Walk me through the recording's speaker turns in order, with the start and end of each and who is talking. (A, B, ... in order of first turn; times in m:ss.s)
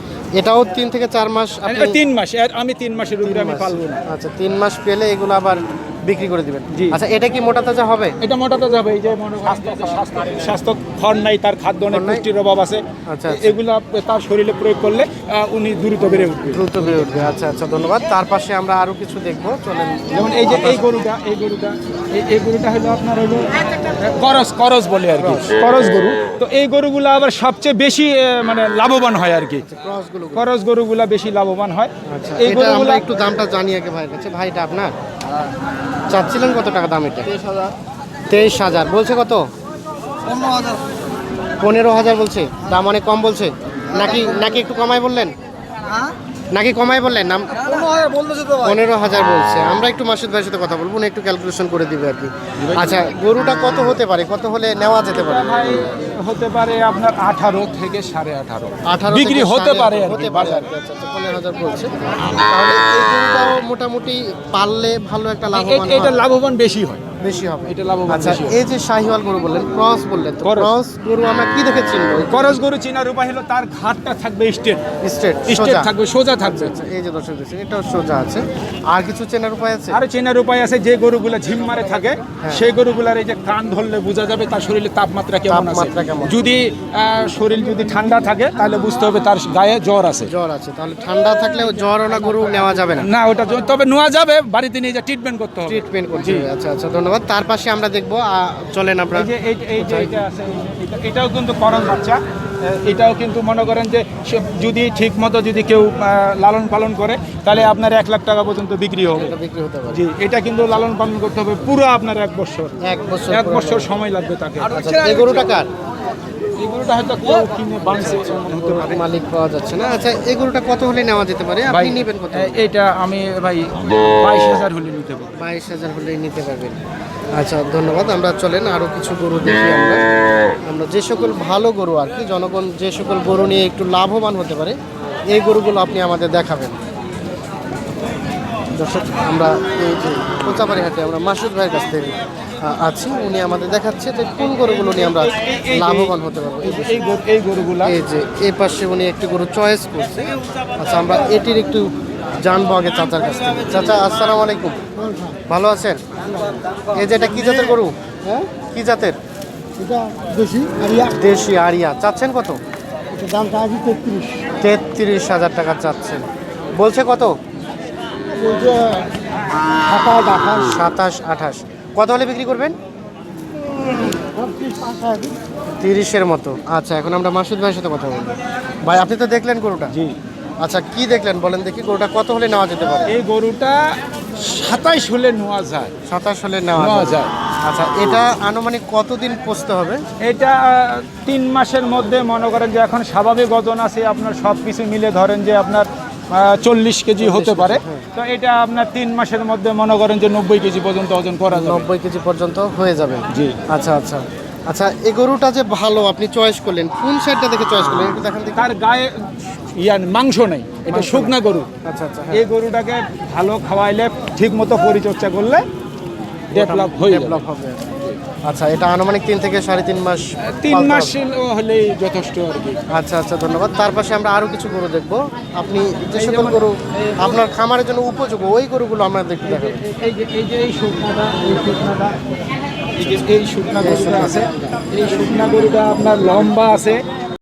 0:00.4-0:02.0 A
0:01.6-0:04.0 B
0:03.2-0:08.1 A
0:06.7-0:07.0 B
0:08.2-0:17.2 B
0:11.9-0:12.2 A
0:13.1-0:13.6 A
0:16.5-0:20.9 A
0:20.1-0:29.6 B
0:25.2-0:25.5 A
0:29.6-0:30.5 A
0:30.3-0:33.0 B
0:32.0-0:34.9 A
0:36.1-0:37.3 A
0:38.3-0:39.4 A
0:40.3-0:40.7 C
0:41.6-0:45.3 A
0:46.5-0:48.0 A
0:48.0-0:48.3 C
0:48.5-0:55.8 A
0:52.6-0:53.0 B
0:55.1-1:00.7 B
0:58.8-1:06.2 A
1:05.5-1:07.0 B
1:07.2-1:12.6 A
1:07.7-1:08.6 B
1:10.4-1:10.7 B
1:12.3-1:14.8 B
1:15.0-1:20.0 A
1:15.5-1:16.8 B
1:19.9-1:30.3 B
1:22.4-1:22.7 A
1:25.5-1:26.4 A
1:30.2-1:33.1 A
1:32.9-1:36.5 B
1:35.6-1:40.2 A
1:39.1-1:49.3 B
1:49.0-1:50.0 A
1:49.9-1:54.8 B
1:52.8-1:53.9 A
1:54.7-1:55.7 A
1:56.6-1:59.0 B
1:57.8-2:02.6 A
2:01.7-2:05.4 B
2:05.3-2:06.8 A
2:07.3-2:10.0 A
2:10.6-2:14.8 A
2:15.3-2:16.8 A
2:18.8-2:27.1 A
2:24.5-2:28.0 B
2:27.8-2:36.0 A
2:36.9-2:37.9 A
2:38.5-2:39.2 A
2:40.0-2:40.9 C
2:41.0-2:42.6 A
2:43.3-2:44.2 C
2:44.6-2:46.2 A
2:46.8-2:47.3 A
2:48.4-2:48.8 B
2:48.6-2:49.0 C
2:49.9-2:50.5 C
2:50.5-2:52.7 A
2:54.2-2:55.3 C
2:55.8-3:00.0 A
3:00.6-3:03.2 A
3:03.1-3:03.8 B
3:04.3-3:05.9 B
3:06.1-3:10.0 A
3:06.8-3:07.3 B
3:10.2-3:21.9 B
3:17.2-3:18.0 A
3:21.5-3:28.7 A
3:23.3-3:23.6 B
3:28.6-3:31.7 B
3:30.9-3:32.5 A
3:32.3-3:35.6 B
3:36.5-3:37.4 B
3:36.5-3:41.2 A
3:40.5-3:42.8 B
3:42.9-3:49.8 A
3:46.1-3:47.4 B
3:49.4-3:52.2 B
3:53.0-3:57.0 B
3:53.8-3:54.4 A